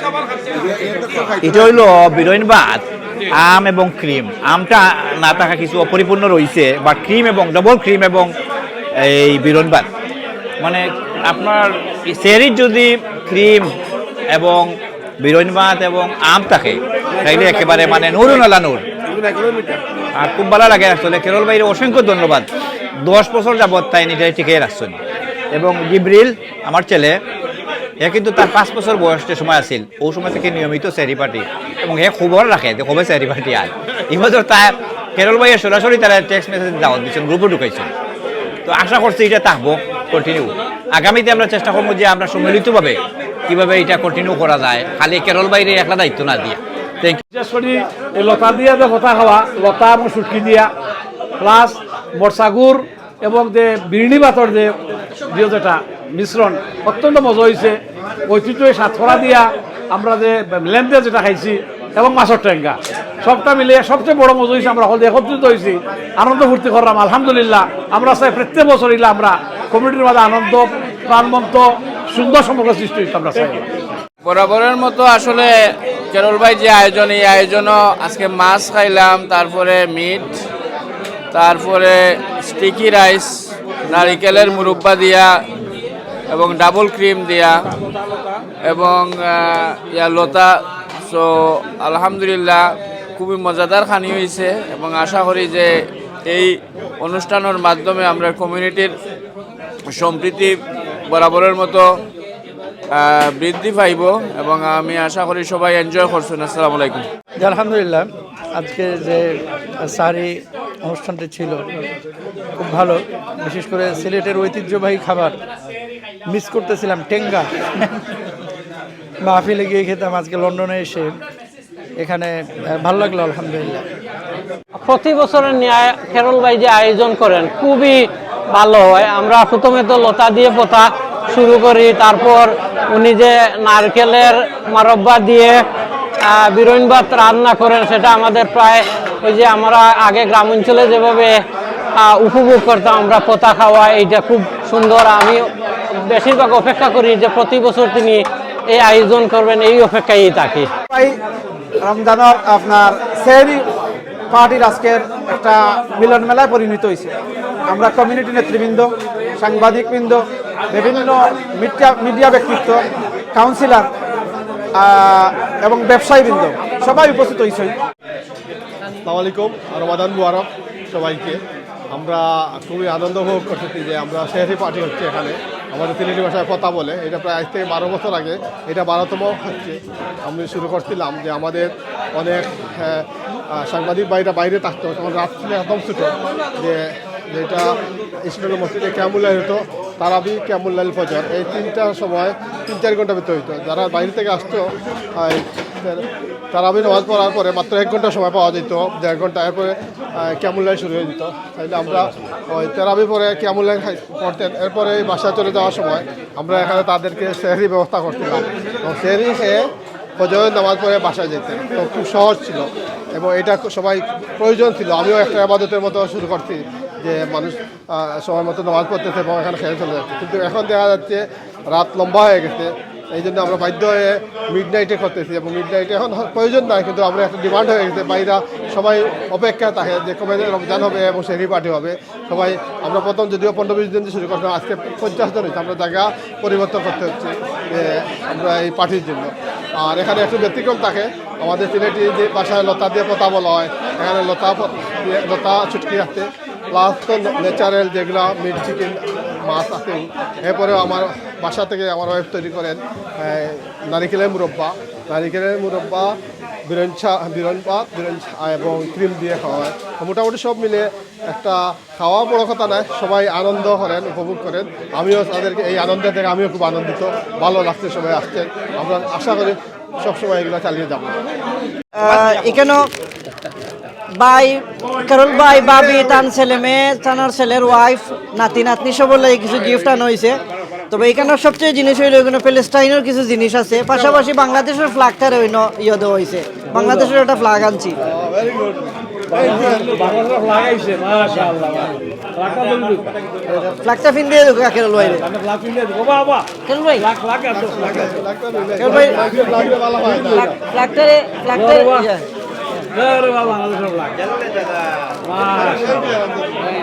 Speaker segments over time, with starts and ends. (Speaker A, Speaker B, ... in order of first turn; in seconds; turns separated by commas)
Speaker A: 1.4-8.3, Speaker A: 9.0-9.9, Speaker A: 10.6-13.7, Speaker A: 14.3-14.7, Speaker A: 15.2-18.8, Speaker A: 20.2-22.5, Speaker A: 23.0-25.0, Speaker A: 25.5-27.1, Speaker A: 28.0-37.9, Speaker A: 38.6-47.2, Speaker B: 47.3-50.7, Speaker B: 51.4-54.6, Speaker B: 55.4-57.7, Speaker B: 58.3-59.2, Speaker B: 64.6-68.2, Speaker B: 68.9-71.6, Speaker B: 72.2-73.6, Speaker C: 74.2-75.5, Speaker C: 76.1-80.3, Speaker C: 81.3-83.3, Speaker C: 83.9-85.3, Speaker C: 86.3-87.7, Speaker C: 88.7-92.6, Speaker C: 93.2-95.7, Speaker C: 96.3-98.9, Speaker C: 99.9-100.6, Speaker C: 101.1-101.8, Speaker C: 102.9-107.0, Speaker D: 107.4-111.7, Speaker D: 112.6-115.4, Speaker D: 116.3-118.2, Speaker D: 119.2-121.1, Speaker D: 122.0-123.8, Speaker E: 124.8-135.6, Speaker E: 136.2-141.4, Speaker E: 142.0-150.7, Speaker F: 150.9-151.2, Speaker F: 151.8-153.7, Speaker F: 154.3-157.1, Speaker F: 157.7-163.9, Speaker F: 164.7-167.8, Speaker G: 169.0-171.4, Speaker G: 171.9-187.7, Speaker G: 188.2-194.7, Speaker G: 195.2-209.6, Speaker G: 210.2-256.1, Speaker G: 256.7-271.1, Speaker H: 271.9-272.9, Speaker H: 274.1-288.0, Speaker G: 288.0-288.8, Speaker G: 289.3-290.0, Speaker B: 289.3-293.0, Speaker H: 293.5-295.2, Speaker B: 295.3-296.4, Speaker H: 296.6-297.1, Speaker B: 297.0-297.6, Speaker G: 297.5-300.5, Speaker H: 298.8-302.2, Speaker B: 303.0-304.1, Speaker A: 304.2-305.1, Speaker B: 305.3-306.1, Speaker G: 305.5-306.6